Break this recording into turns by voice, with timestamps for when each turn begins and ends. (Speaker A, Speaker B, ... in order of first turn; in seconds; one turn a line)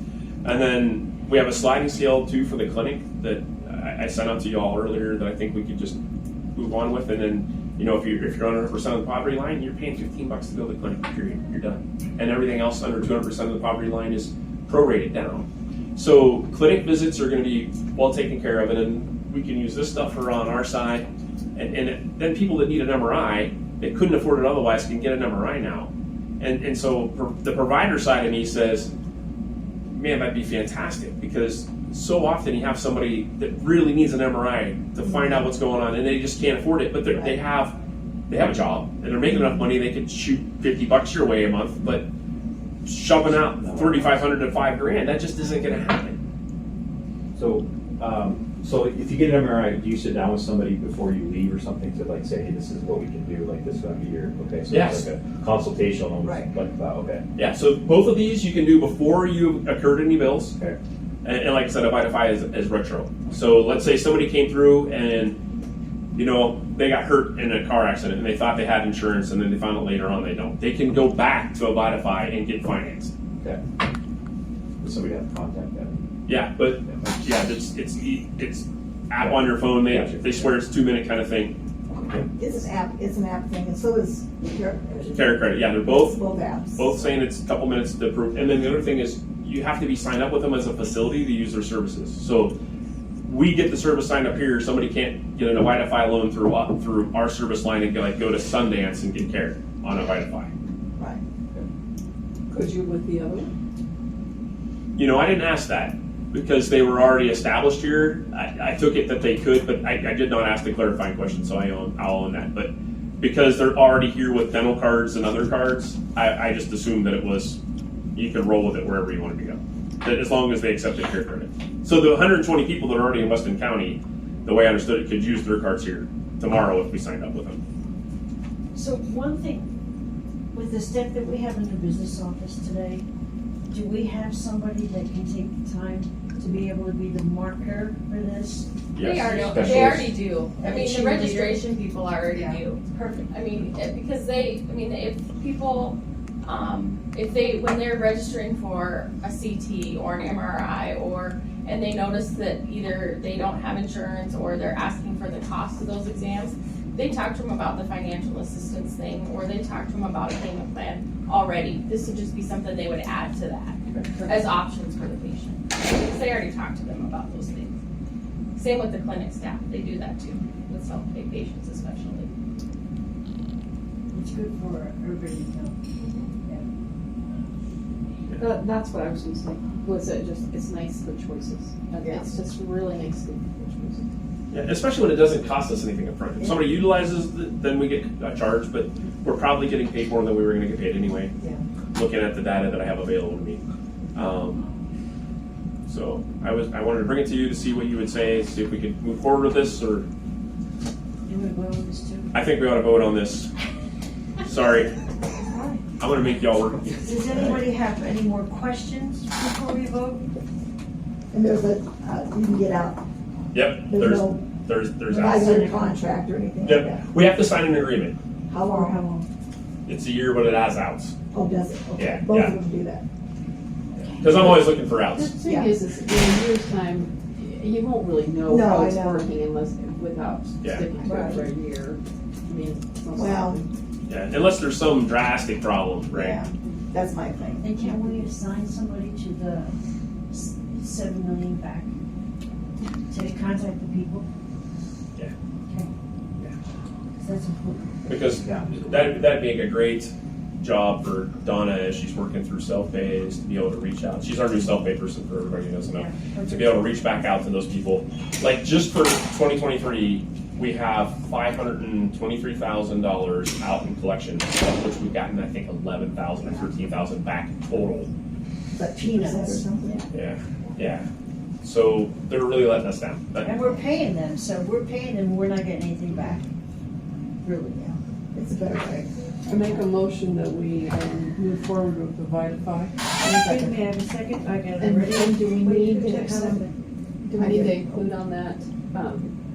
Speaker A: 0.4-6.0
Speaker A: 6.6-28.9
Speaker A: 29.9-37.8
Speaker B: 37.1-37.4
Speaker A: 38.3-42.1
Speaker A: 42.9-46.2
Speaker C: 43.3-44.2
Speaker C: 47.4-57.2
Speaker A: 54.7-55.1
Speaker B: 56.2-56.5
Speaker A: 57.4-60.5
Speaker A: 61.2-65.4
Speaker A: 66.2-73.1
Speaker C: 74.8-76.0
Speaker A: 76.3-81.5
Speaker C: 76.8-77.4
Speaker C: 79.2-80.5
Speaker C: 81.9-82.3
Speaker B: 82.4-86.9
Speaker A: 85.1-86.2
Speaker A: 86.8-92.5
Speaker A: 93.3-100.5
Speaker D: 102.5-103.5
Speaker A: 105.0-117.6
Speaker A: 118.2-127.6
Speaker E: 128.7-129.7
Speaker E: 130.5-133.1
Speaker E: 133.7-138.7
Speaker A: 139.0-140.0
Speaker F: 139.0-167.7
Speaker C: 139.0-140.1
Speaker E: 140.6-141.7
Speaker E: 142.4-143.3
Speaker F: 168.6-172.3
Speaker E: 174.1-175.8
Speaker D: 176.0-176.3
Speaker D: 178.4-184.0
Speaker A: 184.5-191.3
Speaker B: 191.4-191.6
Speaker A: 191.9-193.6
Speaker A: 194.2-194.7
Speaker A: 195.9-200.1
Speaker E: 201.3-202.3
Speaker A: 202.3-203.5
Speaker A: 204.4-204.9
Speaker B: 205.5-205.8
Speaker A: 206.0-207.6
Speaker E: 207.0-210.3
Speaker B: 211.3-213.0
Speaker A: 213.5-215.8
Speaker B: 213.8-214.4
Speaker B: 215.1-217.0
Speaker E: 215.3-215.9
Speaker A: 216.6-218.2
Speaker B: 218.5-219.3
Speaker A: 219.9-221.1
Speaker B: 221.3-223.1
Speaker A: 222.0-222.6
Speaker A: 224.2-225.3
Speaker D: 224.3-233.7
Speaker B: 225.4-225.8
Speaker B: 228.5-229.3
Speaker A: 230.6-230.9
Speaker B: 231.0-231.5
Speaker B: 233.1-233.6
Speaker A: 234.1-236.4
Speaker B: 236.1-237.8
Speaker E: 237.6-239.8
Speaker E: 240.3-241.9
Speaker E: 243.1-244.3
Speaker E: 247.2-248.2
Speaker A: 248.1-268.1
Speaker C: 248.3-249.2
Speaker E: 255.8-257.3
Speaker B: 267.7-268.1
Speaker B: 268.7-270.1
Speaker E: 269.1-270.0
Speaker A: 270.1-271.1
Speaker A: 271.6-273.8
Speaker E: 273.4-276.5
Speaker B: 277.4-279.1
Speaker D: 279.5-283.8
Speaker E: 283.2-286.7
Speaker D: 284.8-286.6
Speaker B: 286.2-286.5
Speaker D: 287.2-289.3
Speaker B: 287.4-288.0